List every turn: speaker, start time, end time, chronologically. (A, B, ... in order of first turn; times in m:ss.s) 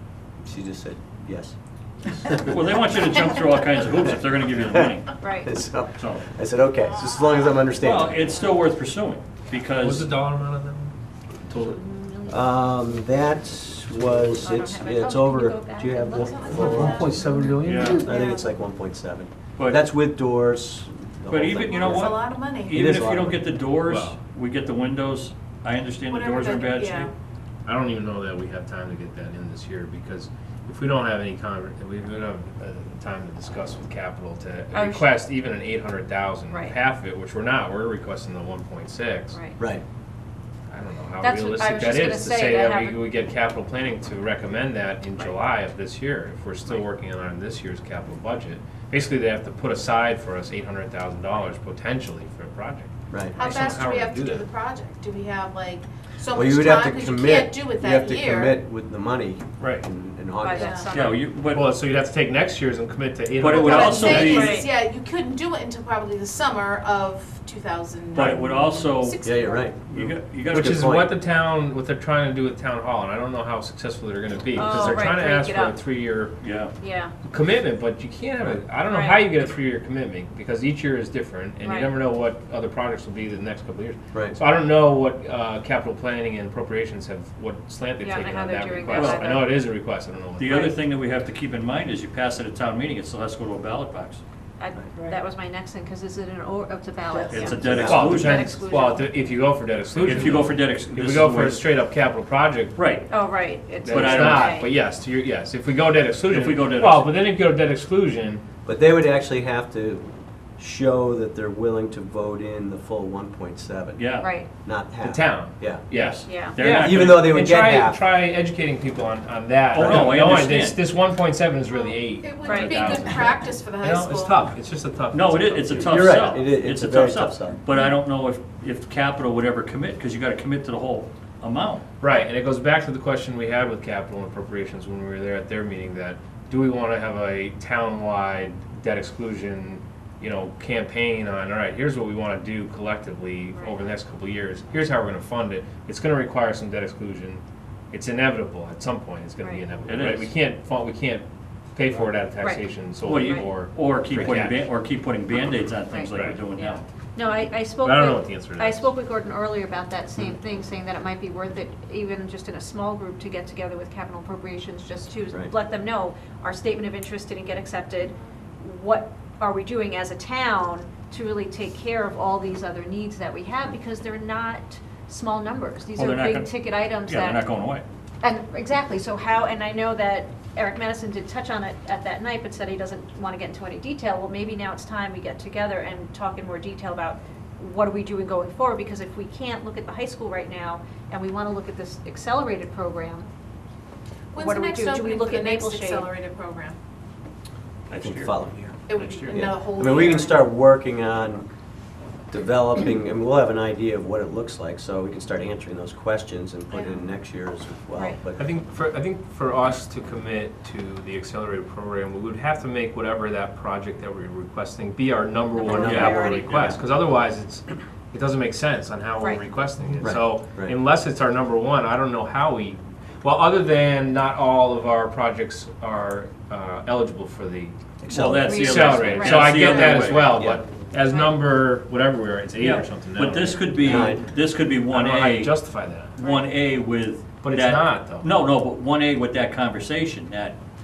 0:00.4-0:01.6 A
0:02.1-0:02.4 A
0:02.3-0:05.2 B
0:04.5-0:08.3 A
0:05.2-0:05.5 C
0:05.9-0:06.2 B
0:07.8-0:10.1 B
0:09.8-0:10.9 D
0:11.5-0:23.4 A
0:11.6-0:12.6 C
0:14.4-0:18.0 C
0:16.1-0:17.2 E
0:17.6-0:18.0 B
0:17.9-0:18.5 E
0:19.6-0:19.8 B
0:21.3-0:27.1 B
0:21.6-0:22.8 E
0:23.8-0:24.2 D
0:26.1-0:27.1 E
0:27.6-0:39.4 D
0:34.7-0:35.1 C
0:36.5-0:36.8 C
0:39.3-0:39.6 C
0:40.7-0:54.5 D
0:41.2-0:43.0 C
0:53.1-0:53.4 A
0:53.4-0:58.6 E
0:56.3-1:00.8 A
0:59.6-0:59.8 B
1:00.4-1:01.2 C
1:00.5-1:01.0 E
1:00.9-1:01.7 B
1:01.4-1:04.5 D
1:03.4-1:04.6 B
1:03.5-1:09.7 E
1:04.3-1:04.7 C
1:08.1-1:09.2 B
1:09.2-1:11.2 A
1:09.8-1:10.9 B
1:10.5-1:16.4 D
1:14.5-1:15.8 C
1:16.4-1:16.7 B
1:16.8-1:17.1 C
1:17.3-1:30.8 D
1:18.9-1:19.2 C
1:21.6-1:21.9 C
1:24.1-1:24.4 A
1:28.0-1:29.6 C
1:28.9-1:29.5 B
1:30.4-1:34.2 B
1:34.6-1:39.2 C
1:37.2-1:38.5 B
1:37.3-1:38.2 A
1:37.7-1:42.8 D
1:40.0-1:41.7 B
1:42.8-1:43.2 B
1:43.1-1:44.7 C
1:43.8-1:48.4 D
1:43.8-1:44.6 B
1:46.3-1:47.1 B
1:48.6-1:50.1 A
1:50.6-1:55.9 A
1:54.0-1:54.3 B
1:54.2-1:54.5 C
1:55.0-2:06.1 D
1:55.9-1:57.5 B
1:56.2-1:56.6 C
1:56.5-1:58.0 A
1:59.7-2:00.8 B
1:59.7-2:00.3 A
2:01.7-2:04.4 E
2:02.4-2:02.8 C
2:05.1-2:11.8 B
2:05.7-2:07.6 A
2:12.0-2:34.6 D
2:23.6-2:23.8 C
2:29.4-2:29.6 C
2:29.8-2:30.3 B
2:32.4-2:33.4 C
2:33.0-2:36.8 B
2:35.8-2:57.5 C
2:37.8-2:38.9 D
2:55.9-2:57.8 B
2:58.2-3:13.3 C
3:14.3-3:16.8 E
3:14.3-3:16.1 C
3:17.9-3:19.6 B
3:18.0-3:21.5 A
3:18.9-3:20.5 E
3:22.3-3:28.4 A
3:28.4-3:47.8 D
3:35.6-3:36.4 C
3:35.7-3:36.8 A
3:35.7-3:36.2 B
3:39.2-3:39.4 C
3:40.0-3:40.8 A
3:48.0-3:48.6 A
3:48.1-3:50.3 B
3:48.4-3:50.4 C
3:48.5-3:54.1 D
3:49.6-3:49.9 E
3:50.3-3:50.6 A
3:51.0-3:51.4 C
3:52.6-3:55.6 B
3:53.8-3:54.2 A
3:54.9-3:56.1 D
3:56.2-4:00.6 B
3:56.2-3:56.4 C
3:57.4-3:58.3 D